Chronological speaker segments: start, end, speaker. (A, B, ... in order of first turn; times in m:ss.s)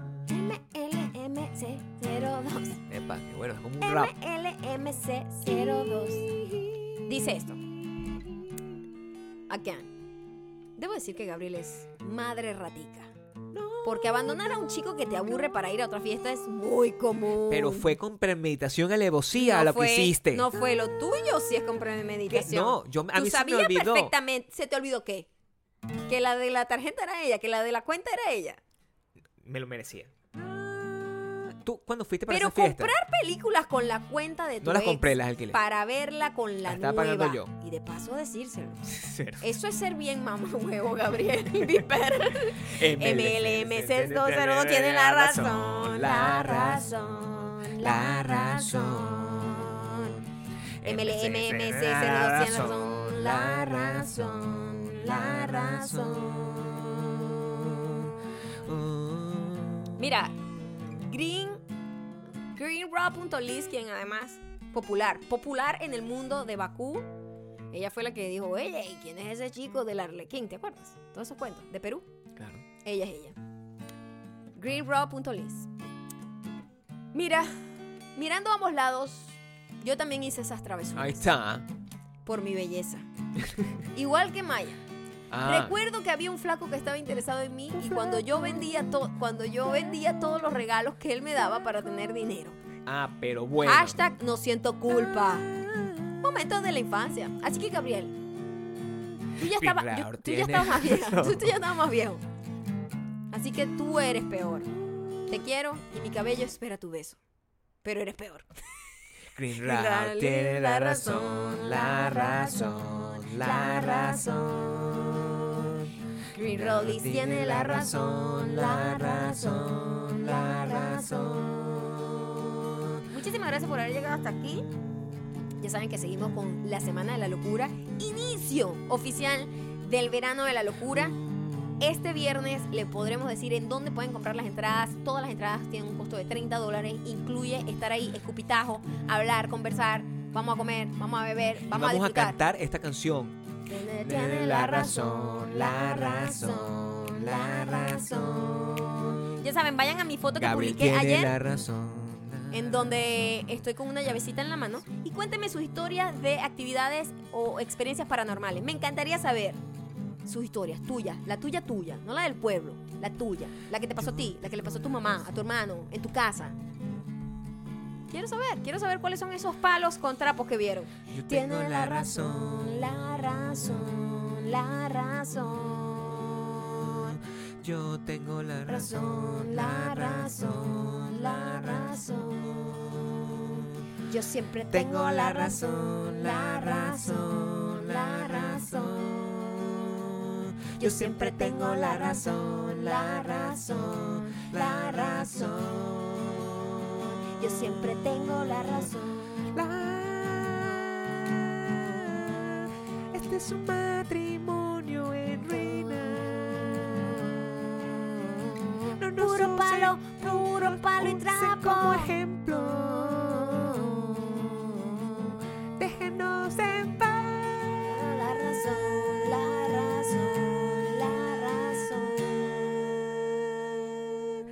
0:00.3-0:02.8 A
0:02.9-0:04.1 B
0:03.8-0:06.3 A
0:05.4-0:07.4 B
0:07.0-0:07.6 A
0:09.5-0:09.9 A
0:10.8-0:13.1 A
0:13.5-0:14.3 B
0:13.8-0:17.9 A
0:17.5-0:20.5 B
0:19.3-0:25.3 A
0:22.3-0:24.1 B
0:26.0-0:28.6 A
0:29.4-0:32.9 B
0:32.3-0:38.9 A
0:34.6-0:35.6 B
0:36.6-0:37.5 B
0:38.8-0:39.5 B
0:39.4-0:50.2 A
0:42.5-0:50.3 B
0:50.8-1:00.0 B
0:50.8-0:56.3 A
1:00.0-1:00.4 A
1:00.9-1:01.6 A
1:02.5-1:07.1 A
1:07.7-1:12.1 A
1:12.4-1:12.6 B
1:12.8-1:13.4 A
1:14.6-1:15.7 A
1:17.1-1:21.3 A
1:20.9-1:21.6 B
1:22.2-1:23.1 A
1:23.4-1:23.8 B
1:23.9-1:24.8 A
1:25.3-1:25.8 B
1:25.4-1:32.6 A
1:27.8-1:28.2 B
1:32.8-1:34.0 B
1:33.6-1:35.5 A
1:36.2-1:38.2 A
1:39.3-1:42.2 A
1:39.4-1:41.6 B
1:43.3-1:44.7 A
1:45.3-1:47.2 A
1:47.8-1:48.5 A
1:49.3-2:03.0 B
1:49.6-1:54.8 A
1:56.3-2:01.4 A
2:03.1-2:04.7 A
2:05.6-2:11.2 A
2:11.4-2:11.7 B
2:11.8-2:22.4 A
2:21.7-2:23.4 B
2:23.7-2:31.3 A
2:24.0-2:29.2 B
2:30.3-2:33.1 B
2:32.5-2:39.6 A
2:40.2-2:46.6 A
2:48.1-2:57.2 A
2:51.1-2:54.4 B
2:55.8-3:03.8 B
2:58.6-3:02.5 A
3:04.0-3:09.1 A
3:04.7-3:18.9 B
3:10.8-3:15.8 A
3:17.3-3:19.4 A
3:19.5-3:35.0 B
3:28.5-3:32.2 A
3:34.9-3:35.3 A
3:35.8-3:38.2 B
3:37.8-3:43.0 A